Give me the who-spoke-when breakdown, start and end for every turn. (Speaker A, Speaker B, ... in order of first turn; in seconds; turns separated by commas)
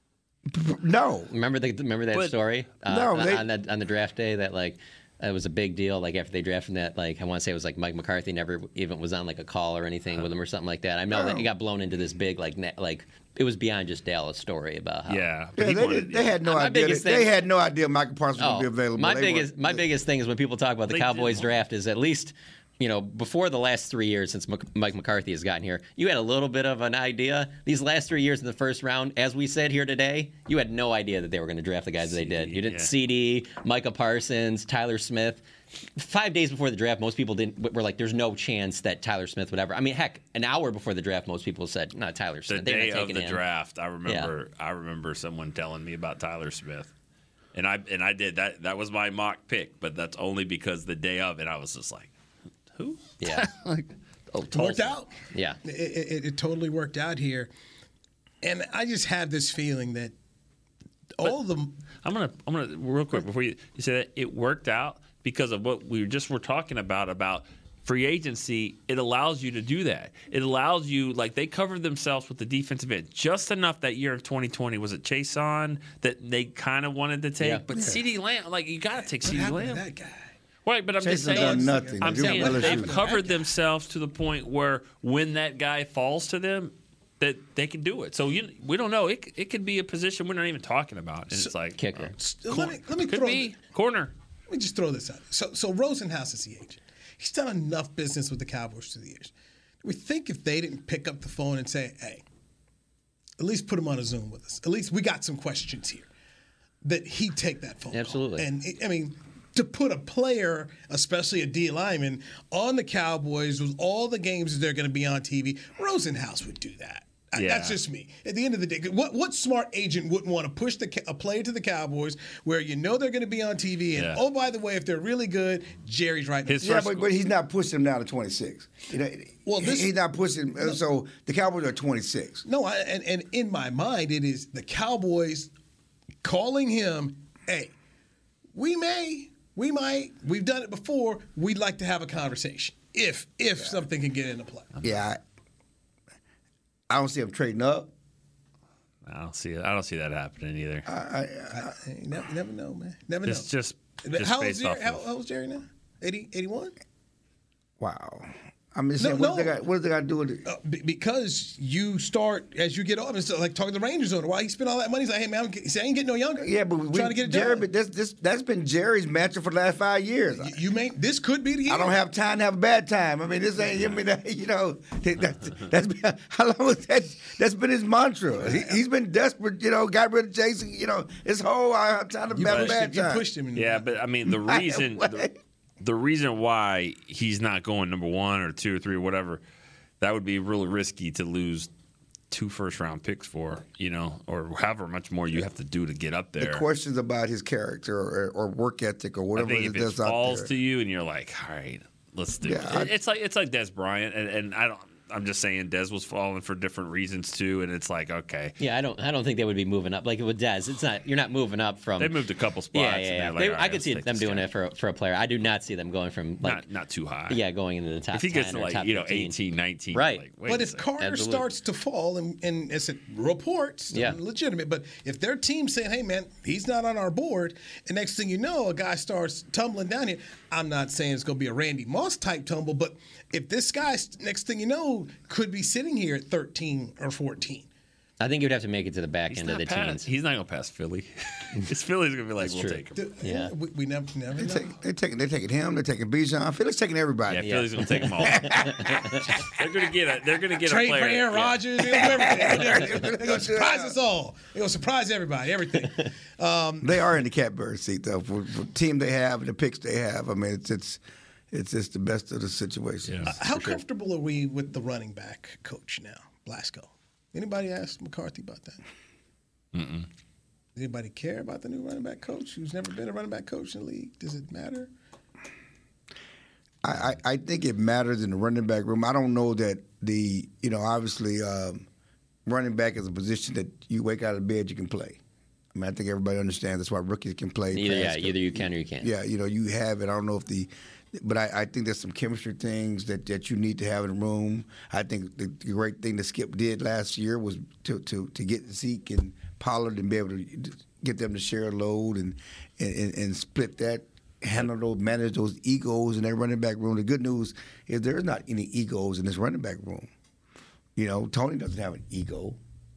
Speaker A: 0.5-1.3, Speaker B: 1.3-15.3, Speaker A: 2.9-3.5, Speaker A: 11.1-11.5, Speaker C: 15.1-16.3, Speaker A: 15.6-19.8, Speaker B: 16.4-17.3, Speaker B: 18.4-35.4, Speaker C: 20.9-21.5, Speaker C: 32.1-32.9, Speaker B: 36.0-43.4, Speaker C: 42.5-46.9, Speaker B: 44.0-44.3, Speaker C: 47.5-52.1, Speaker C: 52.7-55.0, Speaker B: 53.2-53.5, Speaker D: 54.5-57.5, Speaker B: 55.3-55.6, Speaker D: 58.4-60.1, Speaker D: 61.2-61.7, Speaker C: 62.0-79.8, Speaker A: 77.7-78.0, Speaker D: 79.2-80.3, Speaker C: 80.7-94.1, Speaker A: 81.0-83.0, Speaker D: 81.2-83.4, Speaker B: 91.8-92.1, Speaker D: 92.2-93.6, Speaker D: 94.5-99.3, Speaker D: 99.8-102.2, Speaker D: 103.4-106.1, Speaker D: 106.8-126.7, Speaker B: 107.9-108.5, Speaker C: 117.3-117.8, Speaker C: 124.0-124.2, Speaker C: 126.5-127.1, Speaker A: 126.6-132.4, Speaker D: 129.4-129.9, Speaker D: 132.4-135.5, Speaker D: 136.2-137.7, Speaker D: 138.6-144.7, Speaker C: 144.8-145.1, Speaker A: 144.8-145.2, Speaker A: 146.9-147.9, Speaker C: 149.1-150.9, Speaker A: 150.9-151.8, Speaker D: 151.5-153.5, Speaker C: 153.3-155.1, Speaker D: 154.0-156.7, Speaker A: 157.8-160.4, Speaker D: 159.0-159.6, Speaker D: 160.4-167.7, Speaker A: 166.4-170.6, Speaker D: 170.4-172.0, Speaker A: 171.7-183.3, Speaker D: 178.4-178.8, Speaker D: 182.3-183.9, Speaker C: 182.4-182.8, Speaker C: 183.6-189.4, Speaker A: 184.3-185.3, Speaker C: 190.0-191.7, Speaker C: 192.3-196.6, Speaker A: 196.4-200.5, Speaker C: 199.3-208.6, Speaker A: 202.4-202.9, Speaker B: 208.6-212.2, Speaker C: 212.0-214.5, Speaker B: 212.7-216.6, Speaker C: 216.4-217.4, Speaker B: 217.3-219.3, Speaker C: 218.1-220.9, Speaker B: 219.9-220.2, Speaker D: 220.4-237.7, Speaker B: 221.0-221.4, Speaker B: 223.9-224.2, Speaker B: 238.2-240.1, Speaker C: 239.3-243.1, Speaker B: 242.4-243.5, Speaker D: 242.9-244.7, Speaker A: 244.4-247.6, Speaker C: 247.3-251.6, Speaker B: 247.4-249.3, Speaker A: 248.2-249.3, Speaker D: 250.6-256.9, Speaker A: 251.9-253.9, Speaker A: 256.8-263.4, Speaker C: 263.1-263.3, Speaker D: 263.2-268.8, Speaker C: 269.7-270.1, Speaker D: 270.7-274.9, Speaker A: 276.8-281.9, Speaker A: 282.4-285.2, Speaker A: 285.7-310.1, Speaker B: 287.7-289.1, Speaker A: 310.9-312.6